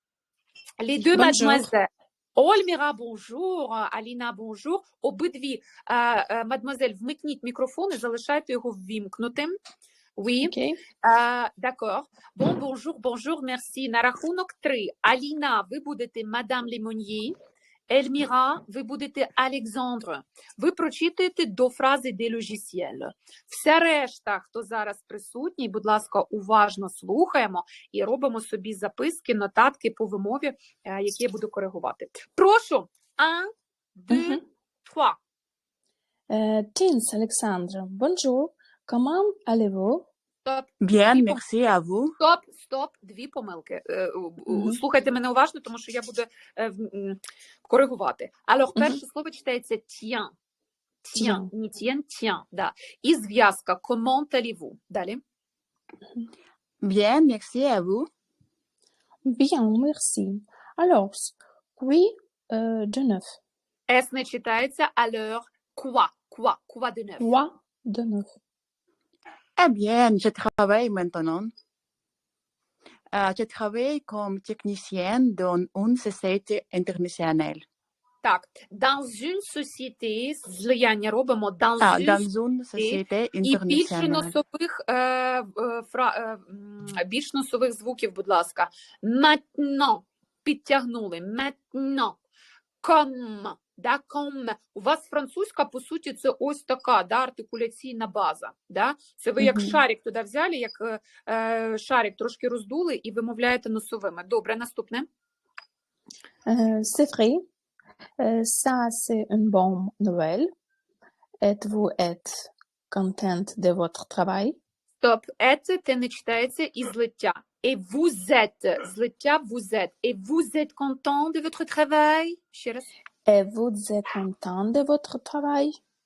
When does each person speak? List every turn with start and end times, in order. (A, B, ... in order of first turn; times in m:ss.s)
0:00.8-0:09.6 A
0:01.0-0:01.7 B
0:10.2-0:17.4 A
0:10.4-0:10.8 B
0:17.9-0:35.2 A
0:34.1-0:34.4 B
0:36.3-0:40.1 B
0:40.5-0:41.4 A
0:40.8-0:42.2 C
0:42.2-0:50.4 A
0:44.5-0:44.8 B
0:51.0-0:55.2 A
0:51.2-0:51.5 B
0:56.8-0:58.1 C
0:59.2-1:03.3 B
1:03.9-1:07.3 A
1:07.2-1:08.4 B
1:09.6-1:11.5 C
1:13.1-1:17.6 C
1:18.2-1:32.2 A
1:21.8-1:24.3 C
1:32.8-1:45.1 A
1:39.4-1:39.8 B
1:46.5-1:47.4 B
1:48.2-1:50.5 B
1:51.4-1:54.6 B
1:55.0-2:02.9 A
2:03.3-2:05.8 B